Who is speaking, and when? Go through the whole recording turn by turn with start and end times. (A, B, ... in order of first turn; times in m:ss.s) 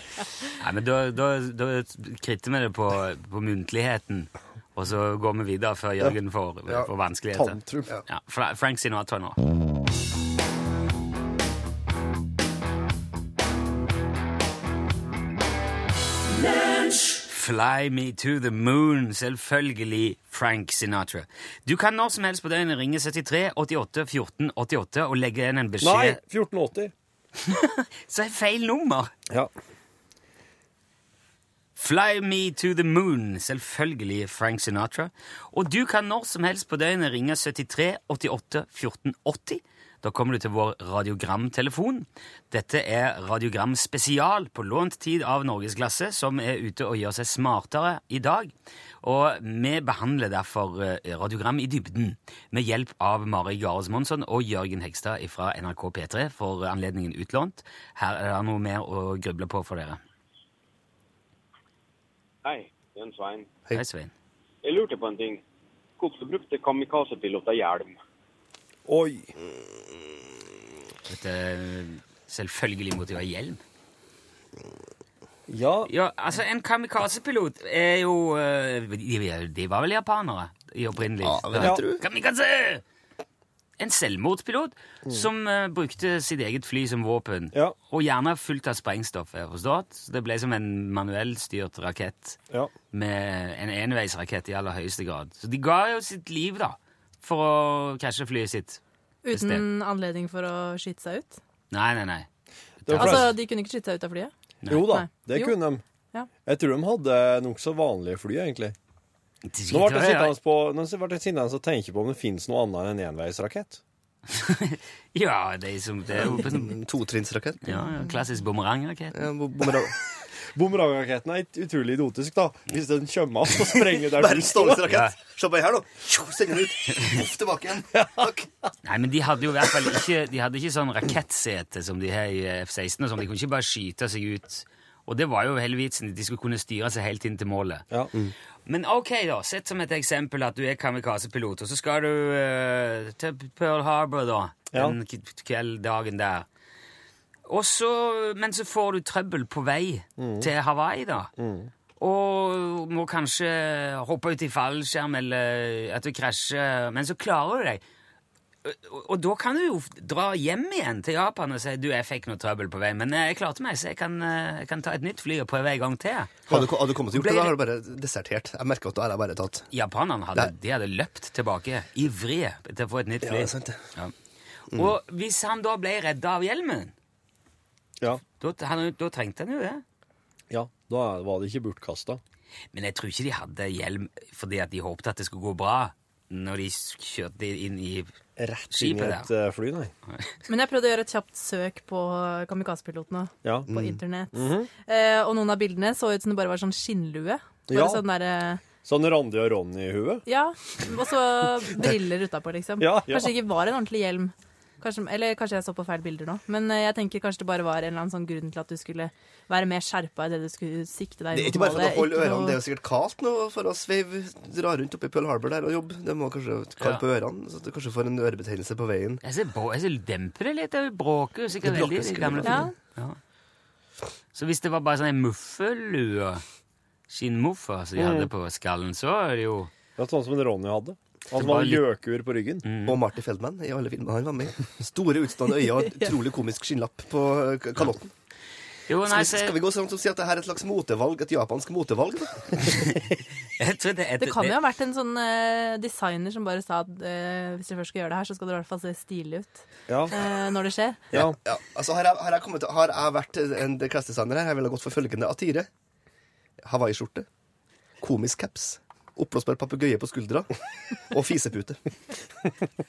0:00.6-0:09.4 A
0:07.3-0:07.9 B
0:17.2-0:26.2 A
0:25.8-0:26.9 B
0:27.4-0:29.1 A
0:31.8-1:00.0 A
1:02.4-1:03.5 C
1:03.7-1:04.1 A
1:04.6-1:05.4 C
1:06.0-1:08.0 C
1:08.9-1:09.3 B
1:11.1-1:13.6 A
1:15.5-1:15.9 B
1:15.9-1:22.8 A
1:21.2-1:22.0 D
1:23.8-1:32.4 A
1:32.9-1:38.8 A
1:39.2-1:41.4 E
1:39.3-1:39.6 A
1:41.7-1:42.3 A
1:42.8-1:43.4 A
1:42.9-1:43.3 B
1:42.9-1:45.6 E
1:44.7-1:45.8 B
1:46.4-1:48.7 B
1:49.4-1:50.3 A
1:49.7-1:53.8 B
1:54.3-1:56.8 A
1:56.3-1:57.8 D
1:57.6-1:59.3 A
1:59.1-1:59.9 D
2:00.5-2:04.9 B
2:04.1-2:08.4 D
2:04.8-2:05.2 A
2:06.9-2:07.2 A
2:07.9-2:08.3 B
2:08.8-2:17.8 A
2:18.7-2:26.5 A
2:27.4-2:31.3 A
2:30.2-2:30.5 B
2:31.4-2:31.7 B
2:32.0-2:37.8 A
2:38.6-2:47.6 A
2:46.5-2:49.7 D
2:49.7-2:54.1 A
2:53.2-2:53.8 D
2:54.7-2:56.9 A
2:58.4-2:59.8 A
3:00.5-3:02.2 B
3:02.7-3:08.1 A
3:08.4-3:09.9 B
3:08.7-3:09.3 A
3:10.5-3:18.6 E
3:13.4-3:13.7 B
3:13.7-3:14.0 D
3:14.3-3:14.7 B
3:17.7-3:18.0 B
3:18.8-3:20.2 B
3:20.2-3:32.6 E
3:22.8-3:23.4 B
3:31.3-3:39.2 D
3:39.2-3:43.2 A
3:41.6-3:42.7 D
3:42.4-3:42.7 E
3:44.4-3:46.4 A
3:47.1-3:49.7 A
3:48.0-3:48.3 B
3:50.0-3:52.6 B
3:51.3-3:51.9 A
3:52.6-3:53.0 A
3:52.8-3:58.1 D
3:58.9-3:59.6 A
3:59.1-4:02.7 D
4:02.6-4:03.0 A
4:03.6-4:04.6 A
4:04.2-4:11.1 E
4:09.9-4:10.1 B
4:11.1-4:15.7 D
4:16.6-4:17.3 D
4:18.0-4:20.5 D
4:21.1-4:21.8 D